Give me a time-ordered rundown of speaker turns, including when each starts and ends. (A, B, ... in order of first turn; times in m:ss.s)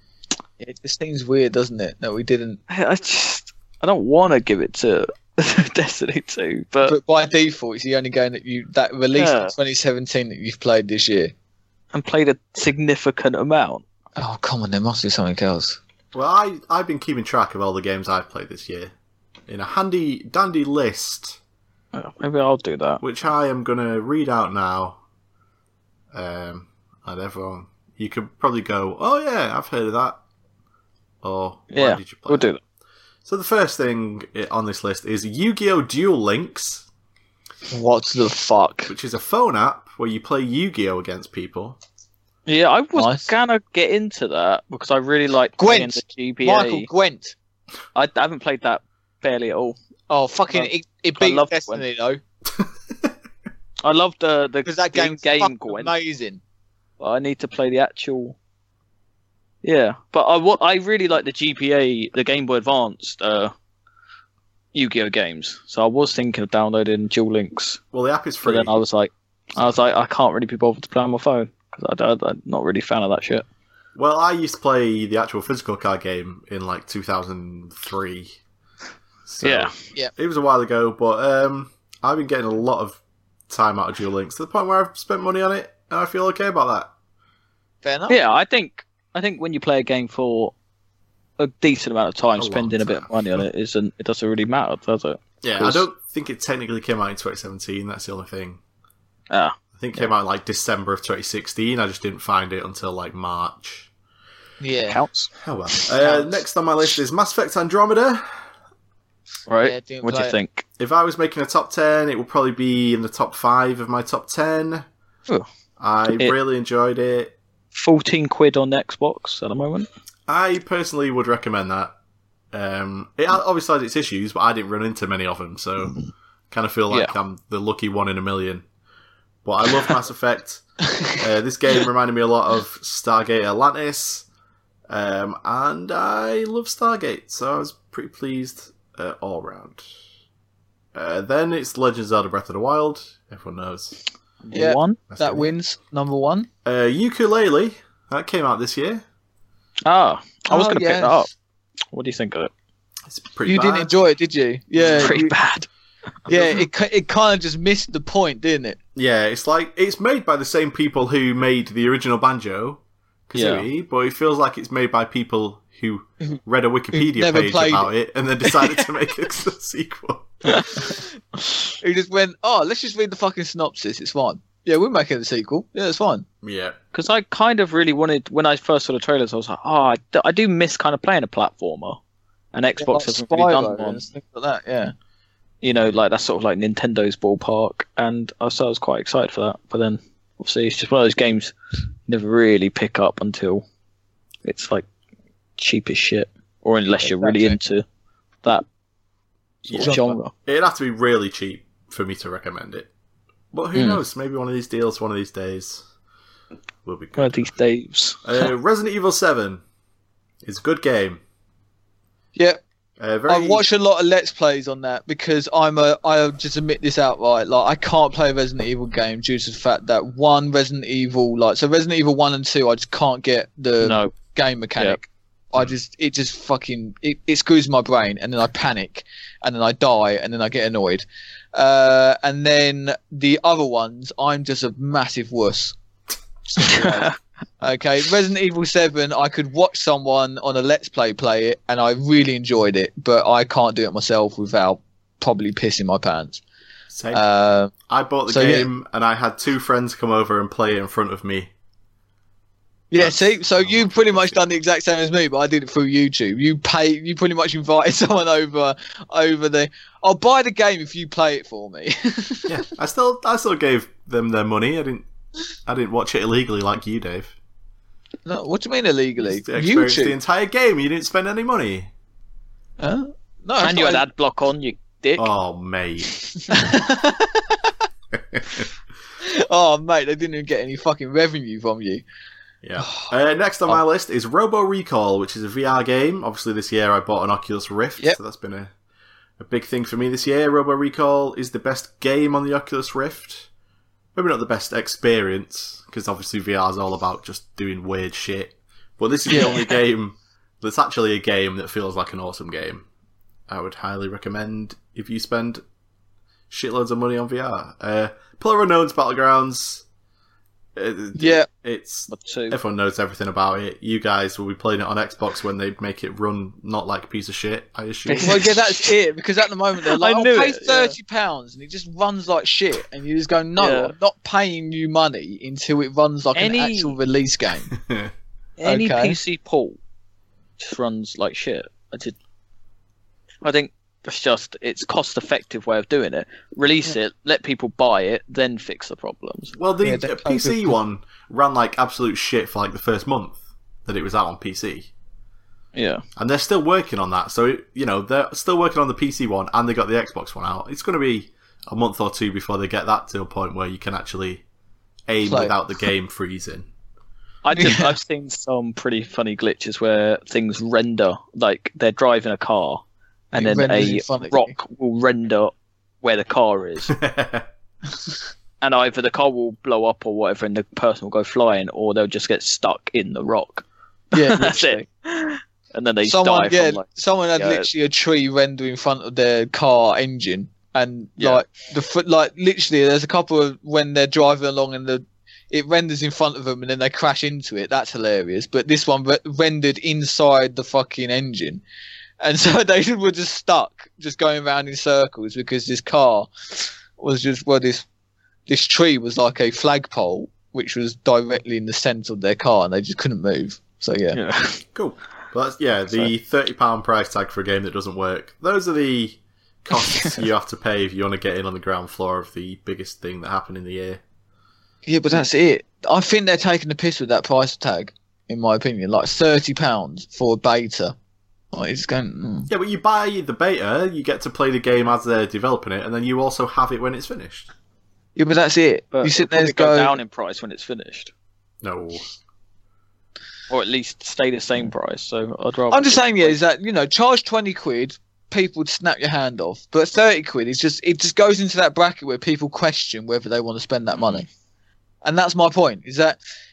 0:00.6-0:02.6 A
0:02.7-0:07.0 B
0:06.8-0:11.3 A
0:09.1-0:09.5 B
0:11.9-0:13.8 B
0:14.2-0:15.8 A
0:16.1-0:18.9 C
0:19.5-0:21.4 C
0:21.9-0:23.0 B
0:23.0-0:25.0 C
0:26.1-0:30.2 C
0:31.2-0:32.5 C
0:31.7-0:32.6 B
0:33.3-0:36.9 C
0:37.7-0:38.9 A
0:38.9-0:41.8 C
0:42.5-0:46.9 B
0:43.0-0:43.3 A
0:45.6-0:47.4 A
0:48.0-0:49.8 B
0:50.1-0:52.2 A
0:50.5-0:51.8 B
0:52.6-0:53.1 C
0:53.8-0:55.9 B
0:54.7-0:56.4 A
0:57.0-0:58.4 B
0:59.6-1:03.5 B
1:04.7-1:07.8 B
1:07.9-1:08.8 C
1:08.4-1:13.4 B
1:14.0-1:18.4 C
1:19.3-1:26.9 C
1:19.4-1:19.7 B
1:27.8-1:28.2 A
1:28.1-1:30.5 B
1:31.4-1:35.8 B
1:32.4-1:33.4 C
1:35.4-1:38.6 C
1:39.3-1:40.1 B
1:39.8-1:43.9 C
1:44.6-1:45.0 A
1:44.9-1:45.3 B
1:45.4-1:48.4 C
1:46.0-1:46.3 A
1:49.5-1:50.6 B
1:49.6-1:50.4 A
1:50.8-1:54.9 C
1:55.8-1:57.4 C
1:57.7-1:59.9 B
2:00.3-2:01.9 C
2:02.5-2:08.6 C
2:09.4-2:10.6 C
2:11.1-2:14.2 C
2:14.9-2:19.8 C
2:20.9-2:24.0 C
2:24.4-2:25.0 B
2:24.5-2:26.5 A
2:25.1-2:25.5 C
2:26.6-2:29.0 C
2:29.9-2:31.3 B
2:30.5-2:31.3 A
2:31.9-2:32.5 B
2:33.1-2:33.9 C
2:33.5-2:35.4 A
2:34.8-2:35.1 C
2:35.0-2:35.7 B
2:36.3-2:36.6 C
2:36.3-2:38.8 A
2:39.0-2:50.4 C
2:43.4-2:43.7 B
2:46.9-2:47.9 A
2:50.6-2:51.0 A
2:51.8-2:56.3 A
2:56.4-2:56.8 C
2:56.9-3:02.0 B
3:02.5-3:04.0 B
3:02.8-3:04.9 A
3:05.6-3:11.5 B
3:12.1-3:13.6 B
3:14.4-3:14.9 B
3:15.6-3:17.8 B
3:17.0-3:17.6 A
3:19.6-3:22.9 C
3:19.7-3:20.3 B
3:19.8-3:20.2 A
3:23.5-3:25.8 C
3:23.8-3:24.0 B
3:26.8-3:27.5 C
3:27.2-3:28.5 B
3:28.2-3:29.6 C
3:30.4-3:31.2 C
3:33.0-3:33.6 C
3:33.3-3:55.8 A
3:43.8-3:44.2 B
3:56.5-4:06.4 A
3:56.6-3:57.2 B
4:06.9-4:07.2 C
4:07.1-4:07.7 A
4:07.9-4:11.5 C
4:08.3-4:08.7 A
4:12.9-4:22.5 A
4:13.0-4:14.4 C
4:22.5-4:25.1 C
4:25.7-4:27.4 C
4:28.3-4:30.2 A
4:29.3-4:31.9 C
4:32.8-4:34.0 A
4:33.6-4:35.3 B
4:35.2-4:36.1 C
4:36.5-4:37.7 A
4:38.1-4:38.7 C
4:39.2-4:42.0 A
4:42.6-4:48.7 C
4:42.8-4:43.1 A
4:49.4-4:53.5 C
4:54.2-5:02.8 C
4:59.3-4:59.6 A
5:03.5-5:05.6 C
5:06.5-5:09.8 C
5:10.8-5:18.5 C
5:11.2-5:11.5 A
5:12.1-5:12.6 B
5:18.1-5:18.9 B
5:18.2-5:27.7 A
5:19.8-5:21.0 B
5:23.6-5:23.9 B
5:26.4-5:27.0 B
5:27.7-5:28.1 C
5:28.6-5:29.8 B
5:28.6-5:29.2 A
5:30.6-5:32.2 B
5:33.4-5:39.5 B
5:39.6-5:44.9 C
5:39.8-5:40.8 A
5:45.8-5:46.0 B
5:46.2-5:54.4 C
5:55.1-5:56.7 C
5:55.2-5:55.6 A
5:57.4-6:02.8 B
5:57.6-5:58.0 A
6:03.3-6:04.6 A
6:03.4-6:07.0 B
6:06.9-6:07.5 C
6:08.6-6:16.8 B
6:14.1-6:14.9 A
6:16.0-6:31.6 A
6:17.4-6:17.7 B
6:21.2-6:21.4 B
6:32.2-6:37.8 A
6:38.5-6:44.2 A
6:44.1-6:44.6 B
6:44.8-6:54.0 C
6:54.9-7:01.0 A
7:01.5-7:02.5 A
7:02.5-7:07.5 C
7:08.2-7:10.0 A
7:08.9-7:11.1 B
7:11.6-7:12.0 C
7:13.5-7:16.4 B
7:15.7-7:24.3 A
7:25.0-7:26.2 A